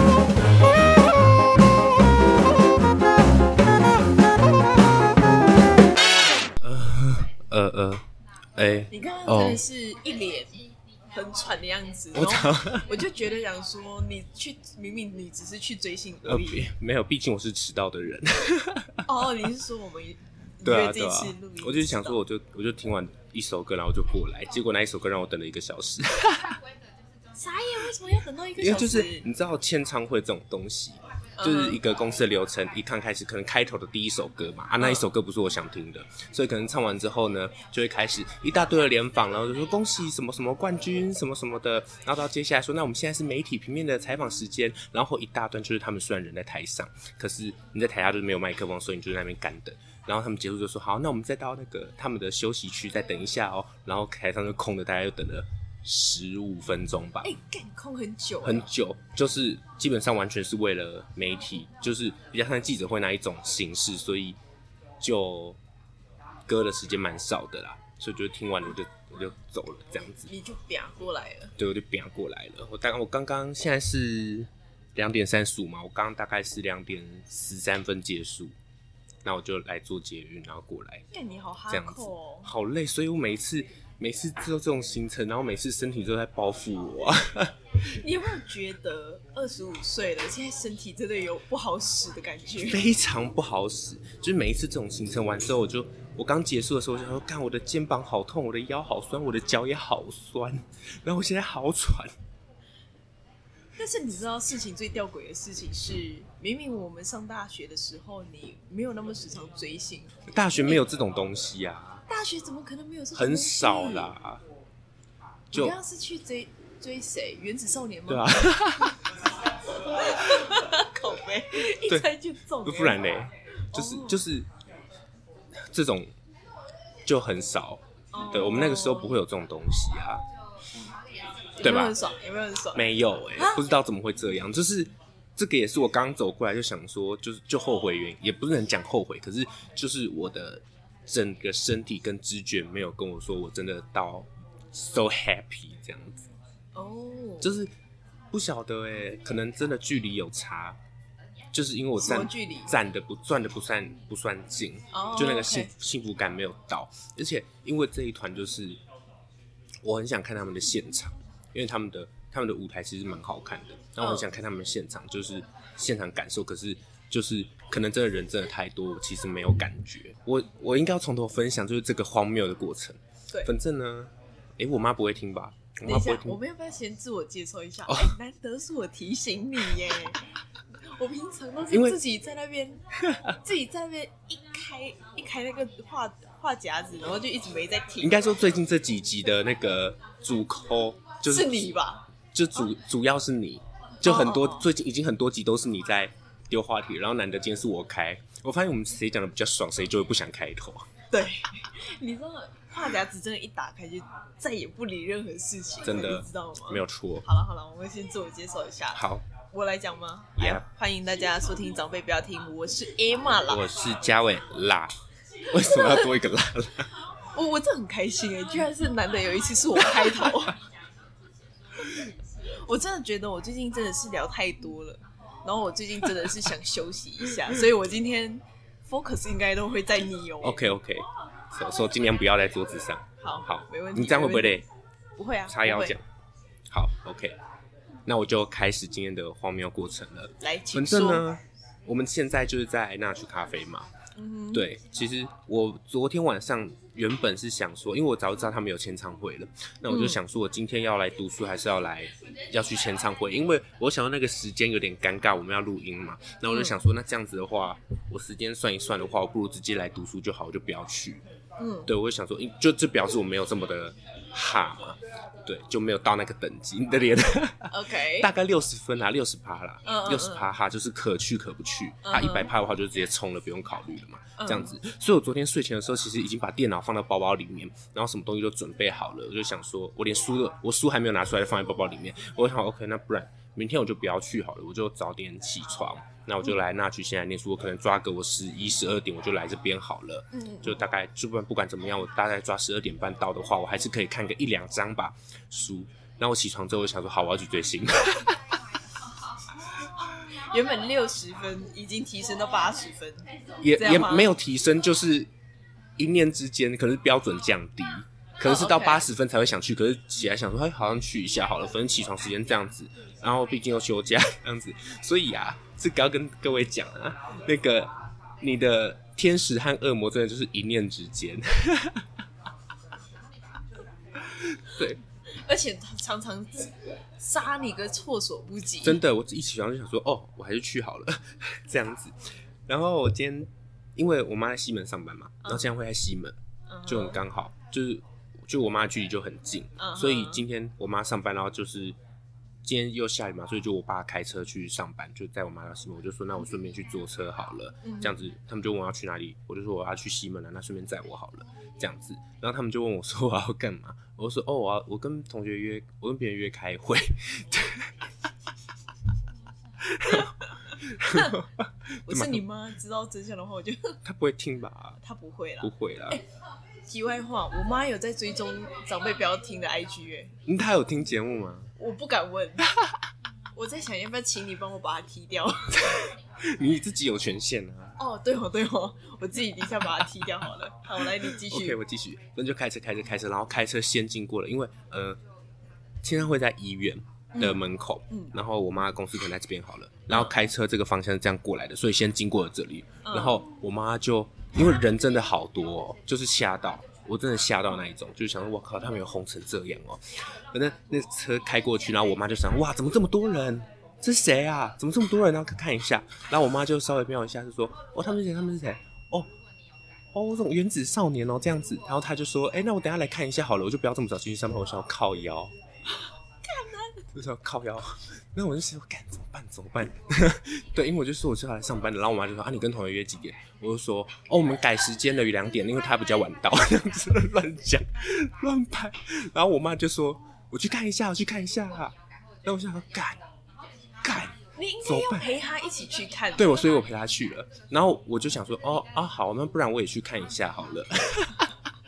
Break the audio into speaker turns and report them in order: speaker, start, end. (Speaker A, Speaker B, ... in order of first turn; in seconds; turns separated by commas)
Speaker A: 6.6-8.0, Speaker A: 8.6-9.6, Speaker B: 8.9-10.6, Speaker B: 11.1-16.6, Speaker A: 12.1-12.9, Speaker A: 16.2-19.0, Speaker B: 19.1-22.2, Speaker A: 20.6-26.5, Speaker B: 27.4-29.2, Speaker A: 28.6-57.3, Speaker B: 31.4-31.8, Speaker B: 57.2-58.7, Speaker A: 58.4-64.4, Speaker A: 65.0-65.6, Speaker A: 66.5-70.3, Speaker B: 70.3-71.5, Speaker A: 71.6-78.5, Speaker A: 79.2-81.0, Speaker B: 81.1-82.5, Speaker A: 81.7-87.5, Speaker B: 87.8-92.8, Speaker A: 92.6-102.1, Speaker B: 103.8-110.2, Speaker A: 110.3-112.0, Speaker B: 112.1-114.1, Speaker A: 113.1-114.4, Speaker B: 115.5-118.5, Speaker A: 118.1-119.0, Speaker B: 119.9-123.0, Speaker A: 122.6-124.5, Speaker B: 123.7-124.2, Speaker A: 125.6-126.1, Speaker A: 127.0-130.2, Speaker B: 128.1-129.2, Speaker B: 131.6-133.6, Speaker A: 131.6-131.9, Speaker A: 132.7-146.3, Speaker B: 146.7-147.5, Speaker A: 147.4-147.7, Speaker A: 148.3-150.8, Speaker A: 151.5-158.8, Speaker B: 152.0-152.7, Speaker B: 154.9-155.7, Speaker A: 159.8-176.4, Speaker B: 164.0-164.3, Speaker B: 175.8-180.2, Speaker A: 177.9-178.1, Speaker B: 180.9-188.2, Speaker A: 181.7-182.0, Speaker A: 183.1-183.3, Speaker A: 188.0-191.7, Speaker B: 191.3-192.0, Speaker A: 192.3-200.8, Speaker B: 194.0-194.7, Speaker B: 201.1-213.6, Speaker A: 205.8-207.2, Speaker A: 208.9-209.2, Speaker A: 210.4-210.6, Speaker A: 213.5-214.9, Speaker A: 215.5-216.9, Speaker B: 215.7-216.0, Speaker B: 217.3-220.6, Speaker B: 222.6-230.7, Speaker A: 230.4-234.6, Speaker B: 233.2-234.6, Speaker B: 235.2-235.9, Speaker A: 235.5-236.0, Speaker A: 236.7-237.4, Speaker A: 238.1-243.9, Speaker B: 240.4-241.2, Speaker B: 244.2-244.7, Speaker A: 244.5-261.2, Speaker B: 249.9-250.2, Speaker B: 256.5-256.8, Speaker B: 261.6-261.9, Speaker A: 261.9-298.4, Speaker B: 267.7-268.3, Speaker B: 269.8-270.4, Speaker B: 272.0-272.5, Speaker B: 274.4-274.7, Speaker B: 290.3-290.8, Speaker B: 300.5-303.2, Speaker A: 303.6-305.3, Speaker B: 303.8-304.3, Speaker A: 306.0-322.1, Speaker B: 308.4-309.0, Speaker A: 324.3-325.0, Speaker B: 325.3-329.0, Speaker A: 328.8-336.4, Speaker B: 336.7-337.2, Speaker A: 336.9-342.0, Speaker B: 339.8-340.4, Speaker A: 342.6-358.0, Speaker B: 347.8-348.1, Speaker A: 359.8-362.4, Speaker B: 362.1-364.0, Speaker A: 364.0-365.0, Speaker B: 365.0-366.2, Speaker A: 365.6-366.2, Speaker B: 366.9-370.3, Speaker A: 370.4-371.7, Speaker B: 371.8-372.7, Speaker B: 373.6-376.1, Speaker A: 375.9-378.0, Speaker B: 378.0-381.8, Speaker A: 381.2-385.2, Speaker A: 386.0-409.3, Speaker B: 393.0-393.4, Speaker A: 410.1-415.5, Speaker B: 416.4-417.0, Speaker A: 417.1-431.9, Speaker A: 432.4-433.2, Speaker A: 434.0-435.3, Speaker B: 434.6-436.6, Speaker A: 436.4-441.4